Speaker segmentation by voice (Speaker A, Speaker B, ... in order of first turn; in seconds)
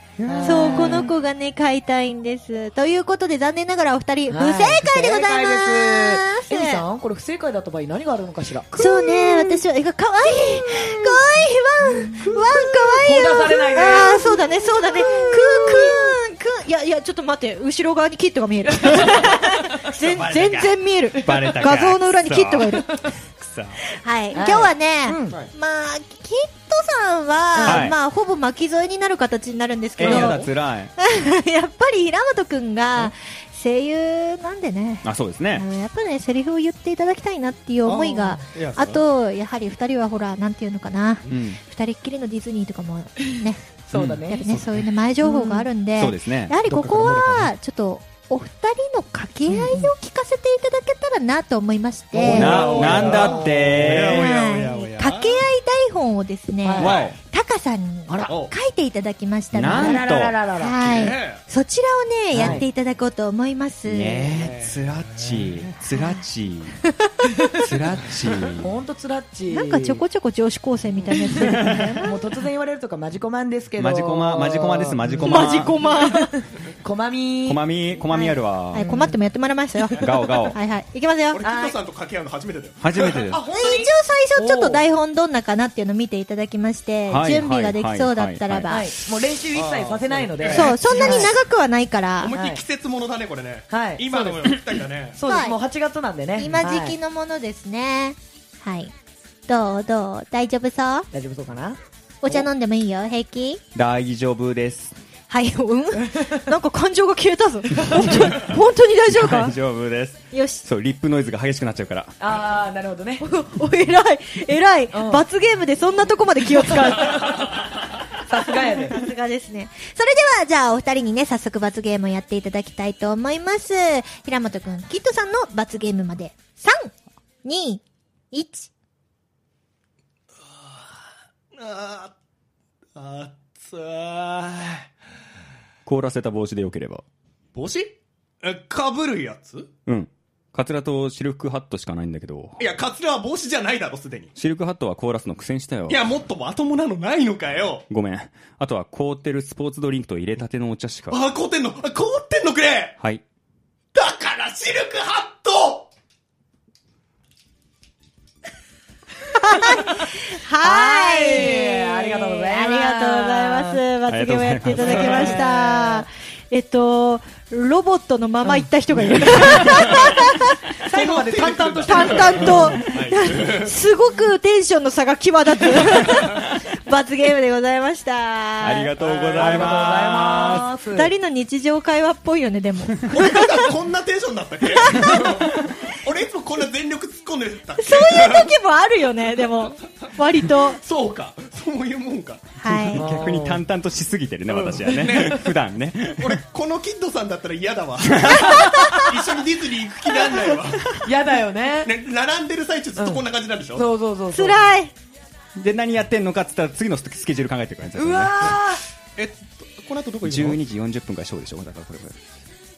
Speaker A: 0.2-0.8, 37.8-39.0, 46.7-47.5, 52.2-55.4, 56.8-57.1, 58.3-58.5, 60.8-61.4, 64.3-65.7, 81.3-83.4, 89.5-90.8, 92.2-95.2, 131.5-132.1, 132.9-134.9, 137.5-139.7, 142.6-144.3, 145.9-147.8, 151.1-152.9, 153.9-155.9, 164.9-165.2, 170.8-173.8, 179.3-179.7, 183.1-188.6, 190.1-192.4, 194.5-195.6, 196.2-201.1, 201.8-203.8, 209.2-210.6
Speaker B: 0.2-0.9, 20.0-23.8, 27.6-27.9, 30.0-30.9, 35.0-35.6, 41.3-41.6, 43.9-44.2, 46.0-46.5, 52.2-54.3, 56.8-57.1, 59.5-60.3, 62.3-62.6, 63.9-66.8, 67.6-68.7, 71.3-72.0, 73.8-75.8, 77.5-78.9, 79.9-80.6, 82.8-83.4, 87.1-88.8, 103.7-105.0, 108.1-108.4, 109.1-112.1, 135.8-137.0, 139.9-142.6, 144.3-146.0, 147.9-151.3, 164.1-165.1, 178.6-180.7, 192.7-196.4, 198.1-198.6, 205.6-208.6, 210.2-212.2
Speaker C: 0.2-1.1, 4.3-9.6, 12.0-16.2, 18.8-19.4, 24.3-25.4, 27.5-27.9, 30.0-30.4, 43.9-44.5, 45.2-45.7, 49.5-49.9, 52.1-54.0, 56.6-57.0, 58.1-58.3, 59.6-60.8, 62.3-62.6, 68.6-70.0, 71.1-77.6, 78.8-79.2, 81.4-81.8, 83.2-84.8, 88.7-91.4, 92.3-92.6, 93.7-94.6, 95.1-97.0, 101.1-102.5, 106.0-106.5, 112.2-113.2, 114.9-115.2, 118.2-119.0, 160.6-163.8, 164.9-166.1, 168.4-170.3, 170.8-172.8, 179.0-181.1, 192.8-193.6, 201.0-201.9, 203.0-203.2, 203.7-204.7, 207.9-208.8
Speaker D: 0.4-6.8, 8.8-22.9, 23.9-43.6, 44.2-52.8, 54.1-64.4, 69.5-72.1, 75.2-76.3, 78.1-81.4, 83.5-88.9, 90.5-92.3, 95.3-95.6, 96.4-98.9, 99.5-101.1, 102.2-103.6, 105.3-109.5, 110.3-110.6, 113.2-117.5, 118.6-126.9, 127.4-128.7, 159.3-170.6, 171.9-178.9, 180.3-183.6, 184.8-185.6, 187.8-190.8, 192.6-193.1, 198.4-199.1, 204.3-204.9